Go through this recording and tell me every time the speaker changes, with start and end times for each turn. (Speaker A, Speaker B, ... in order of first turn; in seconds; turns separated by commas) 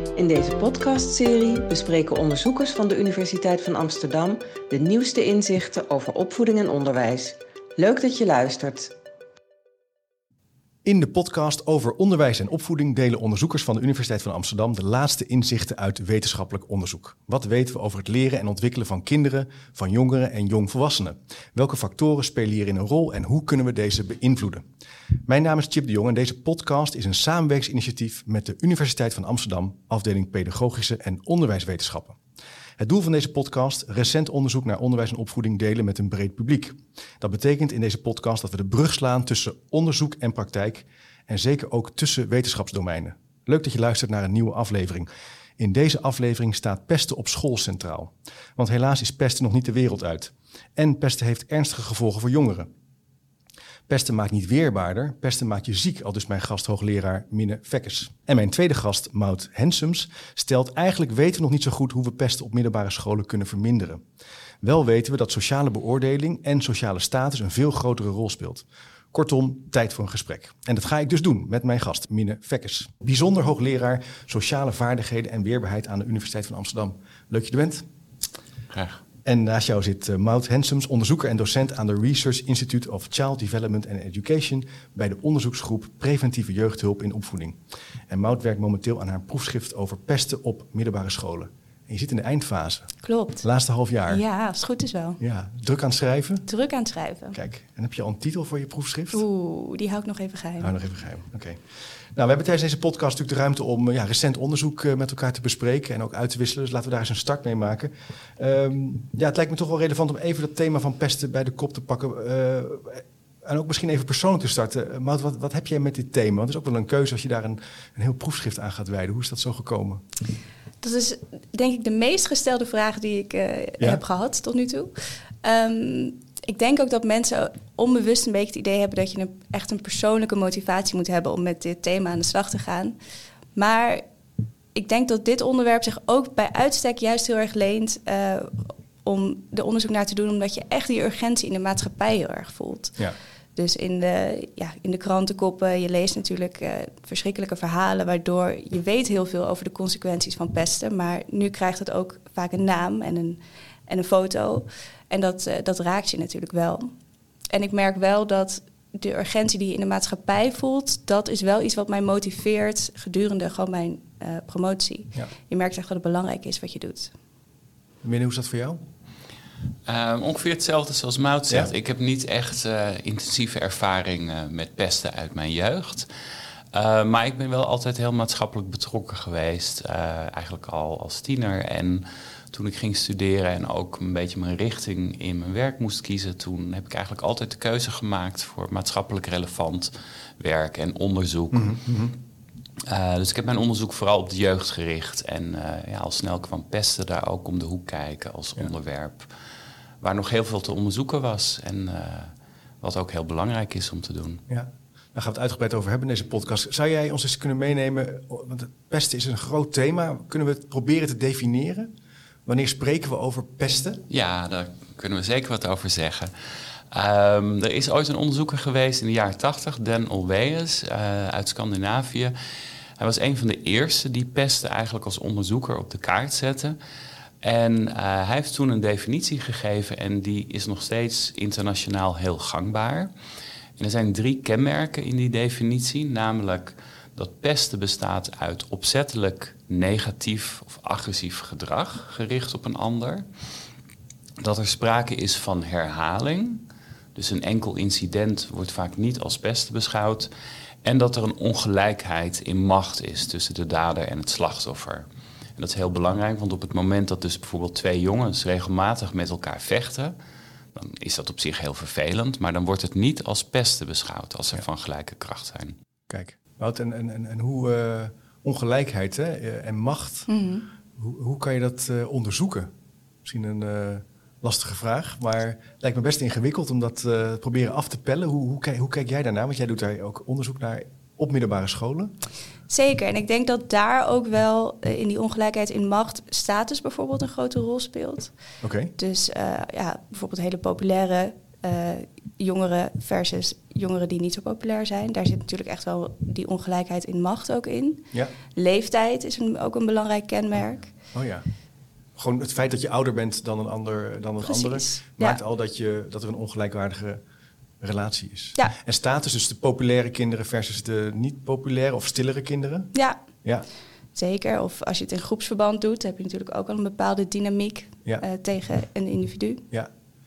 Speaker A: 0.2-8.9, Speaker B: 10.8-24.7, Speaker B: 25.3-32.2, Speaker B: 32.8-52.7, Speaker B: 53.9-64.0, Speaker B: 64.6-77.9, Speaker C: 78.7-79.0, Speaker B: 79.2-92.9, Speaker D: 93.0-93.5, Speaker B: 93.4-94.2, Speaker D: 94.1-95.2, Speaker B: 95.2-96.5, Speaker D: 96.5-97.4, Speaker B: 97.3-99.2, Speaker D: 99.1-100.7, Speaker B: 100.6-101.6, Speaker B: 102.1-120.0, Speaker D: 120.8-133.0, Speaker D: 133.6-134.0, Speaker D: 134.8-143.0, Speaker D: 143.6-156.9, Speaker D: 157.5-167.1, Speaker B: 168.0-168.8, Speaker C: 169.9-176.1, Speaker C: 176.7-191.8, Speaker B: 191.5-192.2, Speaker C: 192.9-199.3, Speaker C: 200.0-204.4, Speaker B: 204.5-211.9, Speaker B: 212.5-214.0, Speaker C: 214.1-216.3, Speaker C: 216.9-222.3, Speaker C: 223.0-226.8, Speaker C: 227.4-233.1, Speaker C: 233.8-243.3, Speaker C: 244.4-246.6, Speaker C: 247.2-250.3, Speaker C: 250.8-255.1, Speaker C: 255.6-260.1, Speaker C: 260.7-265.8, Speaker B: 266.1-270.3, Speaker D: 270.3-270.7, Speaker B: 271.0-272.7, Speaker B: 273.2-282.1, Speaker D: 282.7-288.3, Speaker B: 288.6-288.9, Speaker D: 289.0-300.9, Speaker B: 301.1-301.4, Speaker B: 302.2-307.2, Speaker D: 304.4-305.4, Speaker B: 307.8-312.9, Speaker D: 312.9-313.2, Speaker D: 314.1-319.6